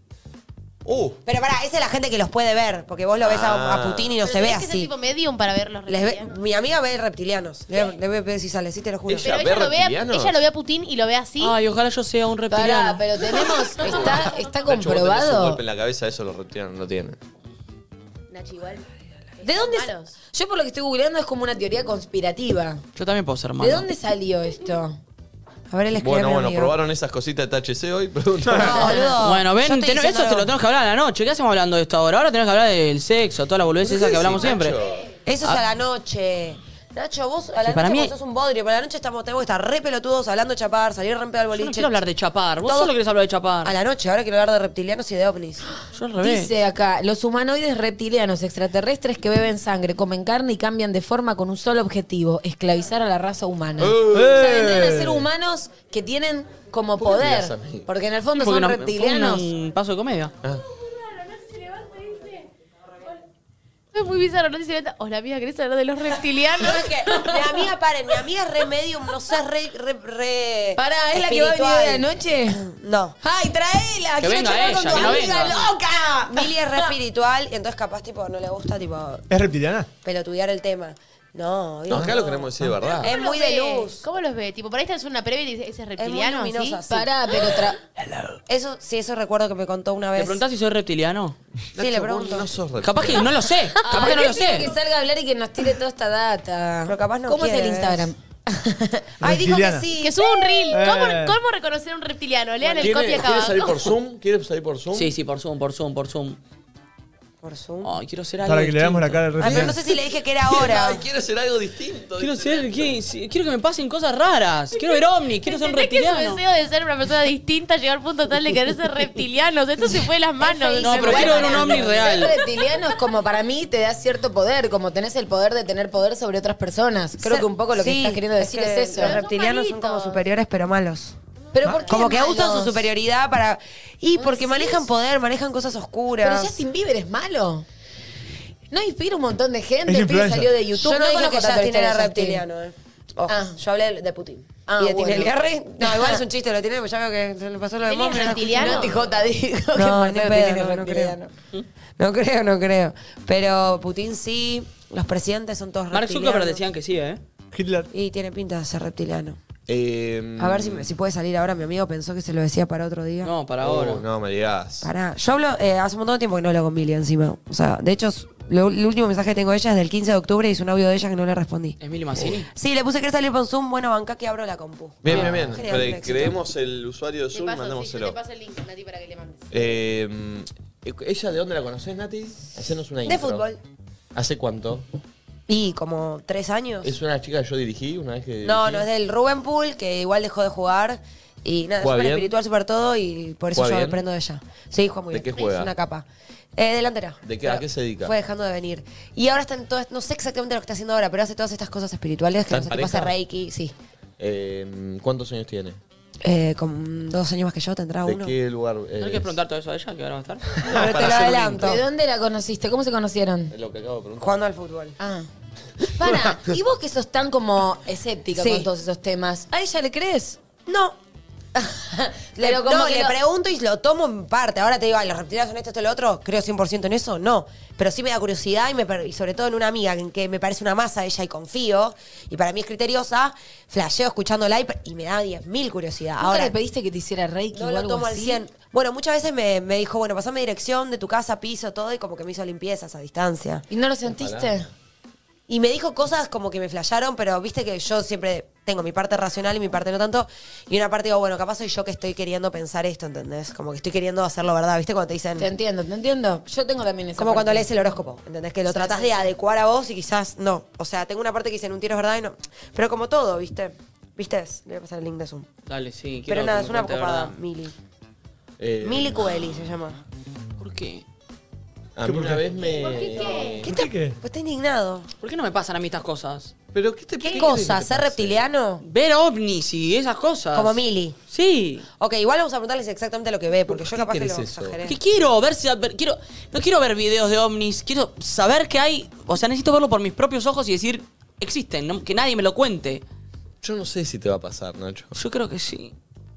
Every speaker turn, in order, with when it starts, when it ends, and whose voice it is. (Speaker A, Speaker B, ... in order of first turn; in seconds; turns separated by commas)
Speaker A: 0.8-1.2, Speaker B: 1.2-4.9, Speaker A: 3.2-4.2, Speaker C: 4.2-6.3, Speaker B: 5.9-9.4, Speaker A: 9.1-10.4, Speaker C: 9.2-11.6, Speaker D: 11.4-13.2, Speaker E: 12.5-15.6, Speaker C: 13.2-14.7, Speaker A: 13.8-17.2, Speaker C: 18.3-18.9, Speaker C: 19.4-20.1, Speaker E: 19.4-22.8, Speaker D: 22.9-23.9, Speaker E: 23.6-25.0, Speaker B: 25.7-26.8, Speaker A: 26.0-28.9, Speaker B: 28.5-30.5, Speaker D: 29.2-34.8, Speaker A: 33.8-35.1, Speaker B: 35.2-42.0, Speaker D: 37.6-38.1, Speaker D: 41.6-43.8, Speaker B: 42.6-42.9, Speaker B: 43.6-45.6, Speaker D: 45.9-46.5, Speaker E: 46.2-59.5, Speaker A: 53.8-54.5, Speaker F: 54.1-55.3, Speaker A: 57.0-57.9, Speaker D: 58.4-60.3, Speaker C: 61.2-62.5, Speaker C: 63.9-67.0, Speaker B: 66.6-73.2, Speaker E: 67.1-67.4, Speaker E: 70.8-72.7, Speaker E: 73.2-76.9, Speaker D: 74.2-75.6, Speaker B: 74.9-75.7, Speaker B: 76.3-79.3, Speaker F: 79.3-79.9, Speaker B: 80.0-84.1, Speaker A: 81.9-83.1, Speaker C: 82.8-86.8, Speaker B: 86.0-87.1, Speaker E: 86.9-87.8, Speaker B: 88.5-90.4, Speaker D: 90.2-91.4, Speaker A: 91.7-93.3, Speaker B: 91.8-92.5, Speaker D: 92.8-94.7, Speaker E: 93.8-99.0, Speaker B: 96.9-98.1, Speaker F: 99.2-99.9, Speaker B: 99.2-100.6, Speaker C: 100.0-103.9, Speaker F: 100.7-101.4, Speaker B: 102.6-103.0, Speaker A: 102.8-105.1, Speaker D: 104.9-106.4, Speaker B: 107.4-108.0, Speaker D: 107.8-109.6, Speaker F: 108.5-109.8, Speaker B: 109.4-111.0, Speaker A: 110.4-112.9, Speaker D: 112.2-116.4, Speaker C: 114.8-122.6, Speaker E: 120.4-129.2, Speaker B: 120.5-121.9, Speaker D: 120.8-122.3, Speaker B: 127.2-131.2, Speaker C: 128.9-130.2, Speaker E: 131.5-132.9, Speaker F: 131.6-131.9, Speaker B: 131.9-136.6, Speaker E: 134.2-134.8, Speaker E: 136.2-137.7, Speaker E: 138.7-142.4, Speaker F: 139.9-140.6, Speaker B: 140.8-149.2, Speaker E: 143.3-143.6, Speaker E: 144.7-146.2, Speaker C: 147.9-149.0, Speaker E: 148.2-151.3, Speaker B: 149.8-151.2, Speaker B: 152.0-156.7, Speaker D: 155.9-157.2, Speaker F: 157.5-157.9, Speaker B: 157.9-159.4, Speaker A: 159.7-160.9, Speaker B: 160.4-163.3, Speaker D: 163.2-164.0, Speaker A: 163.6-164.9, Speaker B: 164.8-171.8, Speaker D: 171.8-172.5, Speaker B: 172.5-176.4, Speaker A: 175.0-178.2, Speaker D: 175.1-175.6, Speaker C: 177.3-179.5, Speaker A: 179.5-183.5, Speaker B: 183.0-183.6, Speaker A: 184.2-184.9, Speaker B: 185.5-187.0, Speaker A: 186.8-188.9, Speaker B: 188.4-203.7, Speaker A: 191.8-192.3, Speaker A: 193.5-194.0, Speaker A: 195.1-195.7, Speaker A: 197.2-198.1, Speaker A: 202.5-203.1, Speaker A: 204.2-205.8, Speaker B: 206.2-208.3, Speaker A: 208.1-209.4, Speaker D: 209.0-210.6, Speaker A: 210.6-211.8, Speaker B: 210.6-211.8, Speaker E: 211.6-213.5, Speaker A: 213.5-214.3, Speaker B: 214.2-215.0, Speaker E: 215.0-215.3, Speaker E: 215.8-220.4, Speaker B: 218.3-218.7, Speaker B: 220.7-221.0, Speaker E: 221.6-223.2, Speaker B: 222.4-236.5, Speaker E: 236.2-238.4, Speaker B: 237.5-243.6, Speaker E: 243.7-244.7, Speaker A: 244.1-244.6, Speaker B: 245.5-255.5, Speaker E: 255.4-257.7, Speaker B: 257.2-265.5, Speaker E: 258.7-259.2, Speaker D: 265.7-267.3, Speaker B: 266.3-267.8, Speaker A: 268.6-269.6, Speaker B: 268.8-270.0, Speaker D: 270.6-271.1, Speaker A: 272.0-273.8, Speaker F: 272.1-272.5, Speaker C: 272.6-273.6, Speaker B: 273.6-275.1, Speaker F: 273.6-274.2, Speaker D: 275.2-276.5, Speaker A: 276.7-278.5, Speaker B: 277.2-278.8, Speaker D: 278.8-281.9, Speaker B: 280.5-281.2, Speaker B: 282.0-285.0, Speaker A: 283.7-284.8, Speaker D: 284.8-293.0, Speaker A: 293.6-295.2, Speaker D: 295.1-295.9